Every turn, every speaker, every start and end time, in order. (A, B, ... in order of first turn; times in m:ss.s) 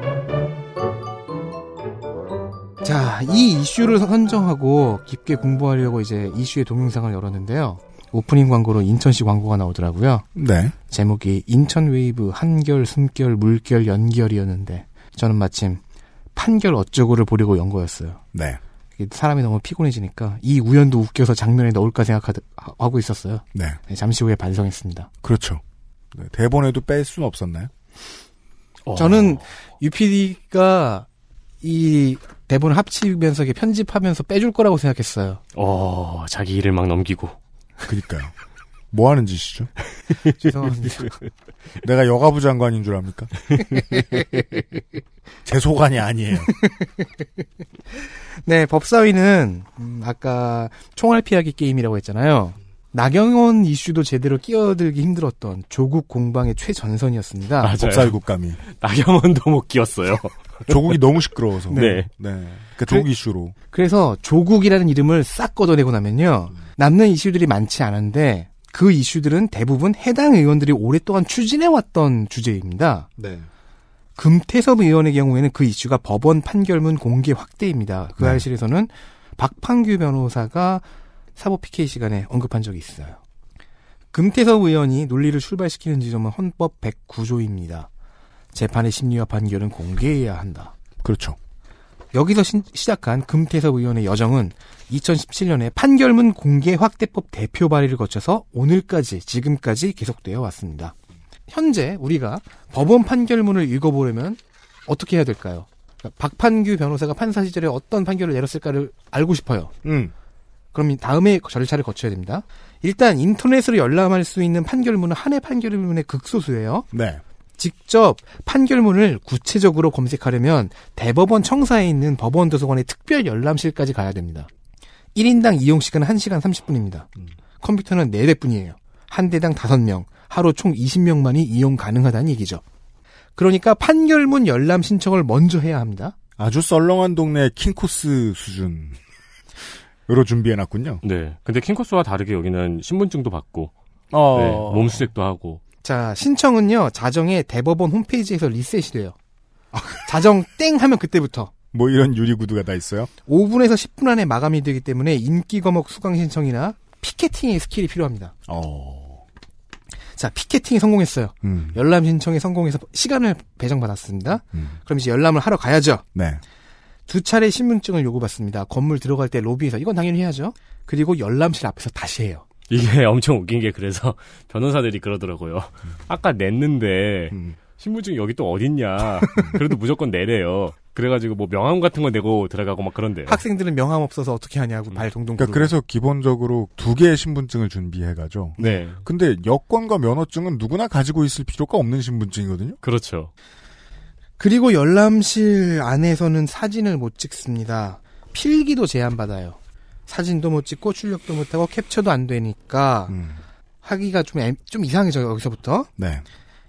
0:02.8-0:10.3 A
0:10.4-0:10.7 B
0:10.9-0:15.8 A
0:16.4-0:18.2 A
0:18.3-0:18.6 B
0:19.0-0:25.1 A
0:23.5-0:23.8 B
0:25.2-0:25.6 B
0:26.1-0:27.7 B
0:28.9-0:29.4 C
0:29.0-0:31.1 A
0:31.6-0:35.4 A
0:35.6-0:37.4 C
0:37.9-0:38.3 B
0:38.9-0:39.7 B
0:40.4-0:41.1 A
0:41.8-0:43.5 B
0:45.5-0:46.5 B
0:46.6-0:46.9 A
0:48.4-0:57.7 A
0:57.6-0:58.2 C
0:57.8-0:58.6 B
0:58.7-1:00.9 C
1:00.7-1:03.6 B
1:01.7-1:02.0 A
1:01.7-1:02.1 C
1:03.7-1:13.1 A
1:13.2-1:13.5 B
1:14.2-1:20.8 A
1:21.4-1:23.2 A
1:24.1-1:27.9 A
1:28.5-1:30.7 A
1:31.0-1:31.4 B
1:32.1-1:41.0 A
1:41.5-1:49.7 A
1:49.8-1:50.1 B
1:50.7-1:56.9 A
1:56.9-1:57.2 B
1:57.6-2:04.5 A
2:05.2-2:07.1 A
2:07.6-2:12.6 A
2:13.4-2:16.2 A
2:16.4-2:19.0 B
2:20.1-2:21.0 B
2:21.0-2:23.7 C
2:24.1-2:25.1 B
2:24.3-2:25.6 C
2:25.8-2:29.2 A
2:29.7-2:30.0 B
2:30.1-2:31.5 A
2:31.7-2:33.1 B
2:33.3-2:38.3 A
2:38.5-2:39.2 B
2:40.2-2:46.0 A
2:41.4-2:41.8 B
2:46.2-2:46.4 B
2:47.1-2:52.4 A
2:52.7-3:03.4 C
2:57.3-2:57.6 B
3:03.3-3:05.7 A
3:05.4-3:12.8 B
3:08.6-3:09.0 C
3:12.8-3:13.3 C
3:14.4-3:23.2 A
3:23.1-3:23.4 B
3:23.8-3:25.9 A
3:26.0-3:26.2 B